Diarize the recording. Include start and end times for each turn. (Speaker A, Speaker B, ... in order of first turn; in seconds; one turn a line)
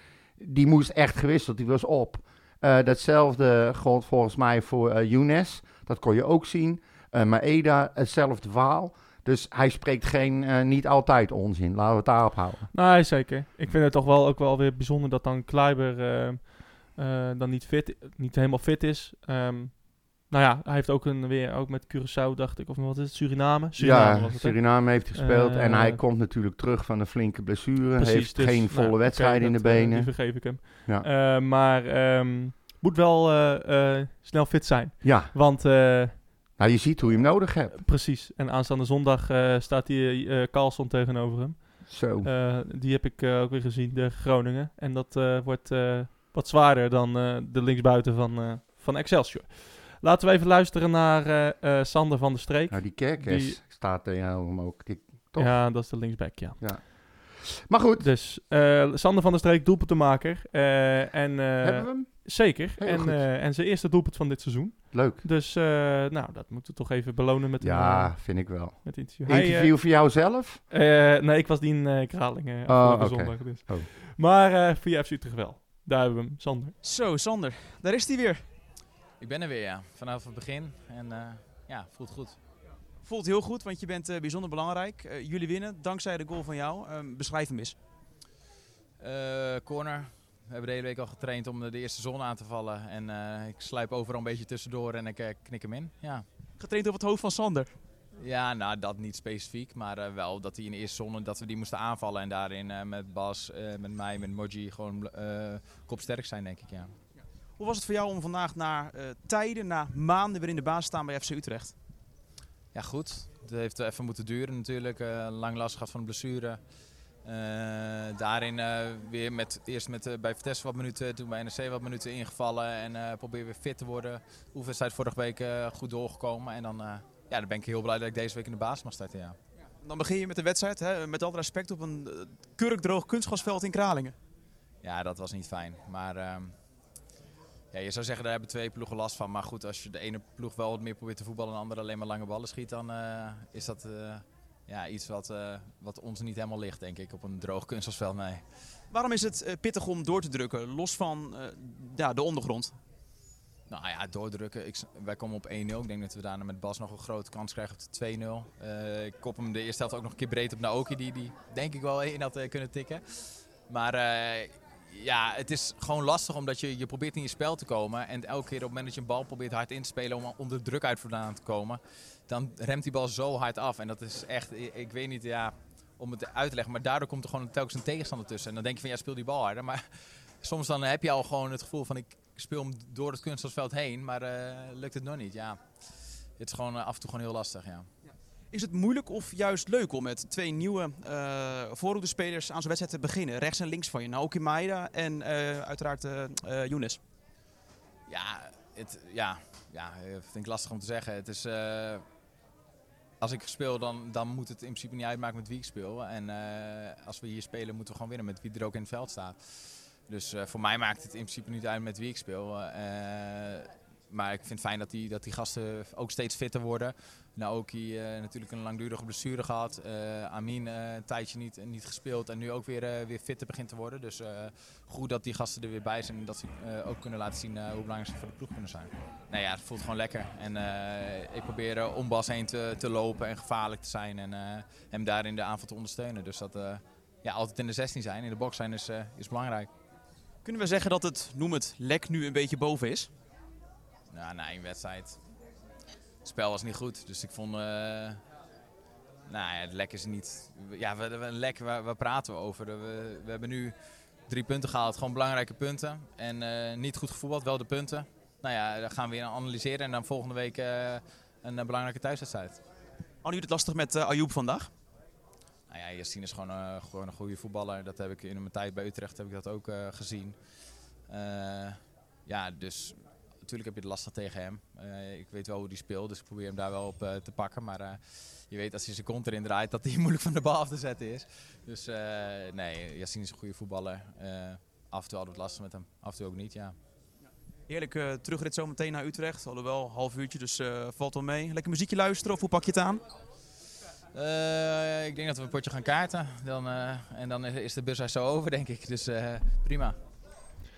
Speaker A: 0.4-12.7
Speaker B: 12.7-26.0
Speaker A: 23.8-31.1
Speaker B: 28.0-36.3
Speaker A: 35.0-35.3
Speaker A: 36.6-37.8
Speaker B: 37.8-53.6
Speaker A: 41.9-42.3
Speaker A: 52.7-55.8
Speaker B: 55.4-56.7
Speaker A: 56.6-58.1
Speaker B: 58.0-69.8
Speaker A: 61.6-63.2
Speaker A: 64.9-65.2
Speaker A: 67.6-70.6
Speaker B: 70.7-76.8
Speaker A: 72.7-73.9
Speaker C: 76.8-78.5
Speaker D: 79.2-82.4
Speaker C: 83.0-87.8
Speaker D: 89.0-96.2
Speaker C: 96.6-97.7
Speaker D: 98.2-106.9
Speaker C: 107.6-111.8
Speaker D: 112.7-116.6
Speaker D: 117.2-129.4
Speaker C: 129.8-134.2
Speaker D: 134.8-136.5
Speaker D: 137.7-148.4
Speaker C: 148.9-152.8
Speaker D: 153.7-179.8
Speaker D: 180.4-185.6
Speaker D: 186.4-187.9
Speaker C: 188.5-197.0
Speaker D: 198.1-202.1
Speaker D: 203.2-209.4
Speaker D: 210.1-239.7
Speaker C: 240.4-243.1
Speaker D: 244.1-245.2
Speaker D: 246.2-248.2
Speaker D: 249.3-253.7
Speaker D: 254.3-262.6
Speaker C: 263.2-264.7
Speaker D: 265.7-270.4
Speaker D: 271.1-286.8
Speaker C: 287.7-293.0
Speaker D: 294.1-300.0